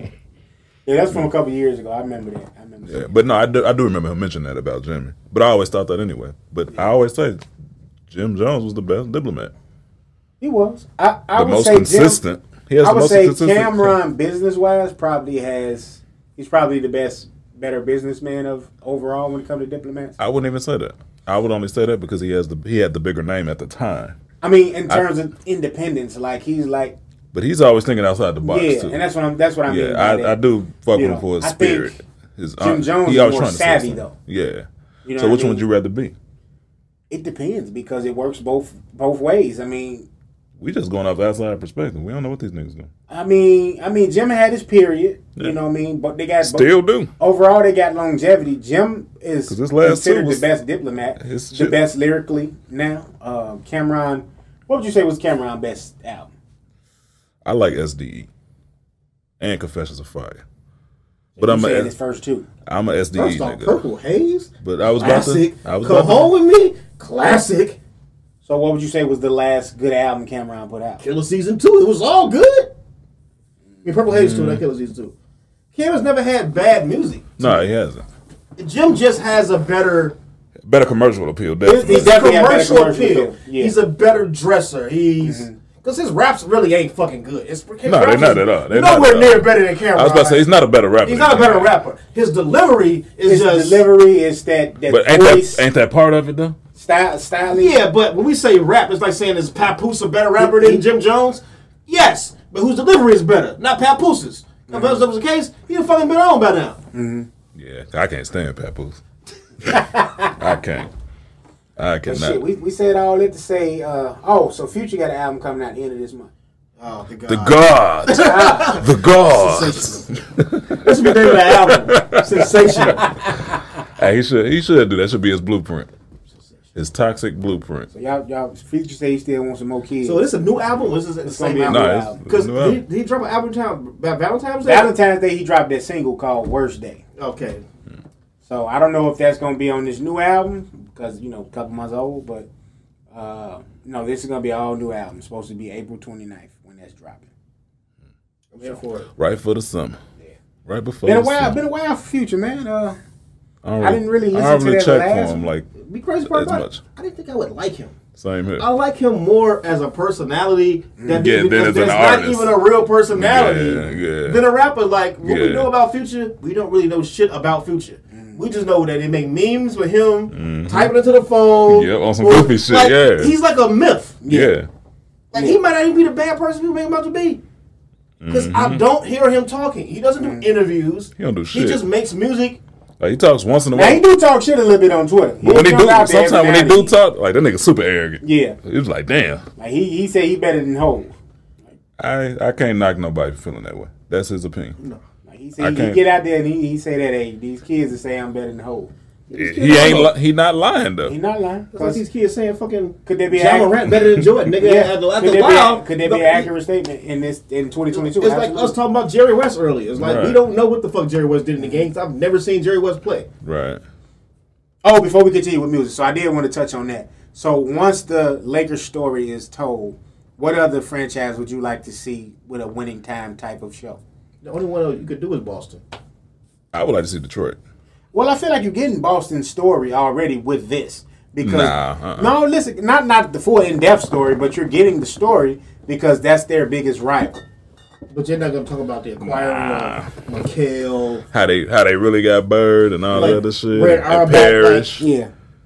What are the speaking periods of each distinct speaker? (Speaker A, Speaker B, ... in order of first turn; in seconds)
Speaker A: 0.9-3.1, 10.4-12.2, 12.8-20.2, 24.4-27.0, 28.4-30.4, 30.9-32.0, 32.6-34.1, 35.1-35.6, 37.1-40.1, 43.1-56.3, 61.4-62.5, 68.4-71.0, 81.6-83.7, 85.2-85.6, 93.2-95.7, 96.8-97.8, 100.4-100.8, 104.7-105.0, 106.9-107.3, 109.7-110.3, 112.1-116.3, 118.1-118.8, 127.9-130.2, 131.2-132.2, 134.6-137.0, 138.4-142.5, 143.1-147.3, 151.0-153.0, 153.8-155.5, 161.0-161.3, 174.2-174.5, 180.2-180.5, 183.7-186.9, 188.2-188.6, 189.6-191.2, 195.3-198.9, 201.1-202.0, 203.1-203.9, 204.6-208.8, 211.6-211.9, 214.8-224.0, 228.1-237.4, 245.0-245.3
Speaker B: 2.9-7.4, 8.1-9.5, 11.4-13.9, 20.2-24.2, 27.3-29.0, 29.7-36.1, 40.6-42.9, 46.4-47.1, 49.5-50.5, 51.2-51.8, 57.5-58.3, 59.4-60.4, 61.4-61.9, 62.7-63.8, 64.6-66.3, 74.1-74.6, 77.4-78.0, 80.7-82.2, 87.8-91.7, 94.9-96.6, 107.5-109.0, 110.3-110.9, 111.8-112.4, 117.3-125.9, 126.8-127.9, 131.7-132.8, 149.2-150.0, 150.7-151.6, 153.6-155.8, 156.3-156.8, 158.2-158.7, 161.1-162.6, 163.1-164.5, 165.2-165.7, 170.3-170.9, 171.7-173.3, 174.3-174.7, 178.2-178.8, 181.2-181.8, 183.0-184.0, 185.4-189.4, 192.0-194.8, 195.6-196.0, 199.3-201.2, 210.0-210.4, 213.4-213.8, 226.7-227.6, 231.4-232.3, 239.2-240.1, 241.3-245.1
Speaker C: 63.1-67.8, 71.0-72.7, 73.8-75.1, 75.7-77.7, 78.6-80.2, 81.8-90.4, 91.0-93.8, 97.5-106.8, 116.8-120.1, 120.7-123.1, 130.0-134.9, 137.2-137.7, 148.5-149.1, 155.8-158.0, 158.6-174.2, 175.3-177.4, 178.3-182.6, 199.3-200.1, 201.7-206.5, 207.9-213.3, 224.4-225.8, 238.1-241.2, 243.1-244.9